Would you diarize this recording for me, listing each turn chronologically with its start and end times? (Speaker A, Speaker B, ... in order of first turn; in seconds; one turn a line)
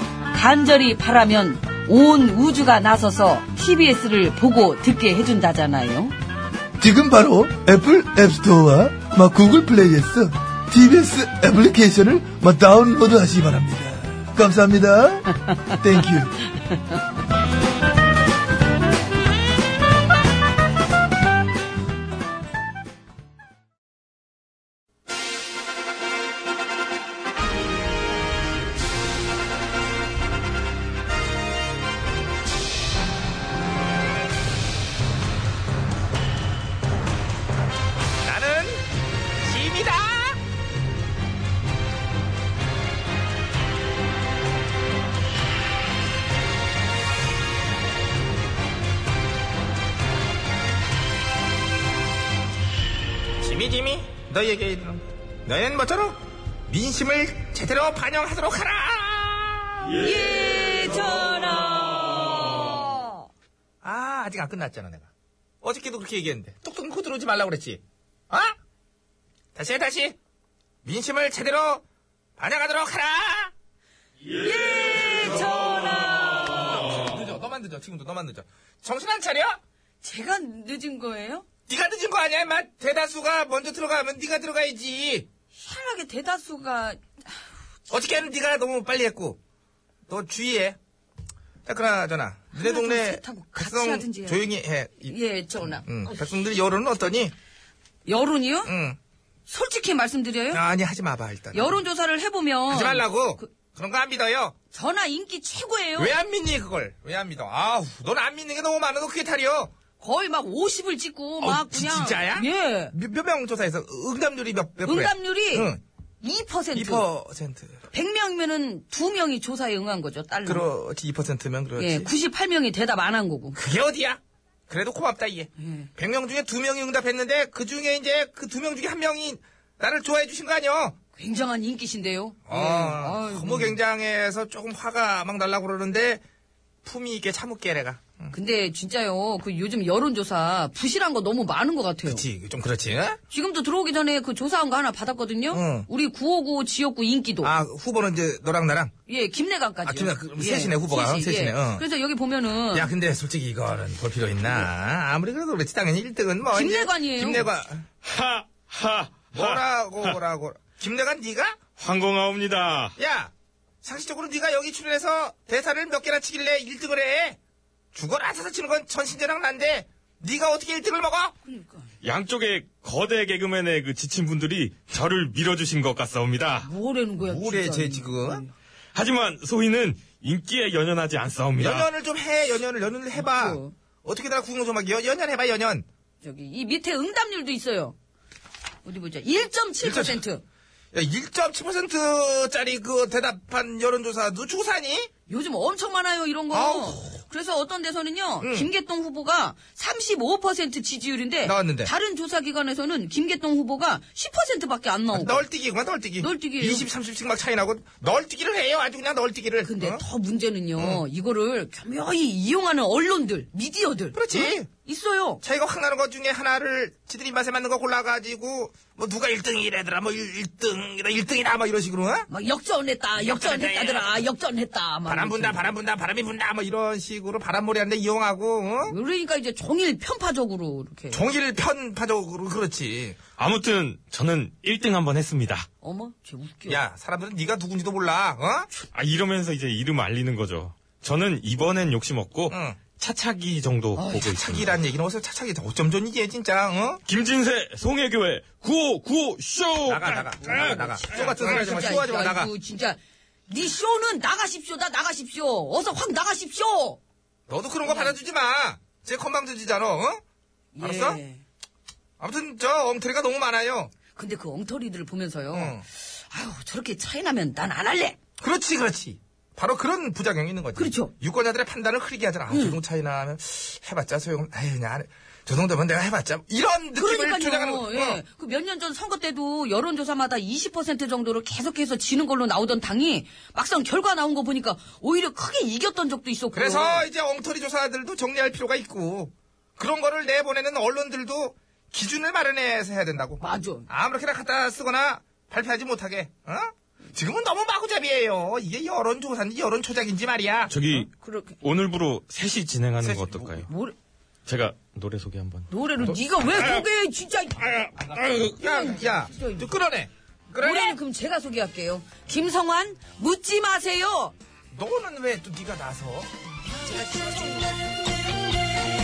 Speaker A: 0.3-6.1
Speaker B: 6.8-16.4
Speaker C: 38.2-38.8
Speaker C: 39.4-40.4
Speaker C: 53.4-60.0
Speaker A: 60.0-63.3
Speaker C: 63.8-65.1
Speaker C: 65.6-68.5
Speaker C: 69.5-70.2
Speaker C: 70.8-71.8
Speaker C: 72.4-73.5
Speaker A: 74.3-76.8
Speaker C: 76.6-79.6
Speaker A: 80.0-81.5
Speaker C: 81.7-85.3
Speaker A: 85.5-87.5
Speaker C: 87.9-89.4
Speaker C: 90.1-90.8
Speaker C: 91.7-95.2
Speaker A: 92.5-94.4
Speaker A: 95.0-95.9
Speaker C: 95.7-97.3
Speaker A: 98.0-98.7
Speaker C: 98.7-99.0
Speaker A: 99.5-100.6
Speaker C: 100.5-101.8
Speaker A: 101.5-103.5
Speaker C: 102.7-104.5
Speaker A: 104.7-106.2
Speaker C: 106.0-109.7
Speaker A: 110.0-112.9
Speaker C: 111.4-115.8
Speaker A: 114.8-115.7
Speaker A: 116.2-117.1
Speaker C: 116.7-117.8
Speaker A: 117.9-120.7
Speaker C: 120.5-122.1
Speaker A: 121.8-123.6
Speaker C: 123.5-131.0
Speaker A: 125.6-125.9
Speaker A: 131.2-133.8
Speaker C: 132.5-136.2
Speaker C: 136.8-138.3
Speaker A: 138.3-142.2
Speaker C: 142.1-143.2
Speaker A: 143.3-147.5
Speaker C: 145.5-145.9
Speaker C: 147.4-148.9
Speaker A: 149.1-152.9
Speaker C: 149.8-151.8
Speaker C: 152.7-157.9
Speaker A: 156.5-157.5
Speaker D: 158.0-160.2
Speaker C: 159.3-161.7
Speaker D: 161.8-162.9
Speaker C: 163.0-163.3
Speaker C: 163.8-167.4
Speaker C: 167.9-171.3
Speaker A: 171.4-171.9
Speaker D: 172.0-176.7
Speaker A: 176.6-178.5
Speaker C: 177.2-178.4
Speaker D: 178.9-181.9
Speaker C: 181.6-185.8
Speaker A: 183.2-183.7
Speaker A: 186.2-188.0
Speaker A: 188.8-190.4
Speaker C: 189.8-190.2
Speaker C: 190.9-195.1
Speaker A: 195.3-205.5
Speaker C: 196.5-197.2
Speaker C: 198.4-198.7
Speaker C: 201.4-201.9
Speaker C: 205.1-210.0
Speaker A: 206.2-206.9
Speaker A: 209.6-215.4
Speaker C: 210.8-211.0
Speaker C: 214.1-214.7
Speaker C: 215.4-222.3
Speaker A: 222.3-225.7
Speaker C: 223.2-224.2
Speaker C: 225.1-228.9
Speaker A: 228.8-231.3
Speaker C: 231.1-233.2
Speaker D: 233.4-235.7
Speaker A: 235.8-236.8
Speaker C: 236.7-238.7
Speaker D: 238.9-244.8
Speaker C: 242.5-242.8
Speaker A: 244.0-244.3
Speaker C: 244.3-247.0
Speaker D: 247.1-250.8
Speaker C: 249.9-252.5
Speaker A: 250.4-257.0
Speaker C: 257.5-260.2
Speaker A: 257.8-258.1
Speaker A: 260.7-261.4
Speaker C: 260.8-261.2
Speaker C: 262.2-263.9
Speaker A: 264.1-268.2
Speaker C: 265.5-265.9
Speaker C: 268.4-278.2
Speaker A: 270.8-271.1
Speaker A: 272.5-272.8
Speaker A: 277.0-287.1
Speaker C: 286.5-300.7
Speaker A: 293.4-293.9
Speaker D: 300.7-301.1
Speaker A: 300.9-301.6
Speaker D: 301.6-303.7
Speaker C: 303.0-303.7
Speaker A: 303.7-304.0
Speaker D: 304.5-305.7
Speaker A: 305.7-307.9
Speaker C: 306.1-306.7
Speaker C: 308.0-311.0
Speaker D: 308.0-308.5
Speaker A: 308.6-309.8
Speaker A: 310.5-314.4
Speaker C: 314.7-316.3
Speaker A: 316.9-317.5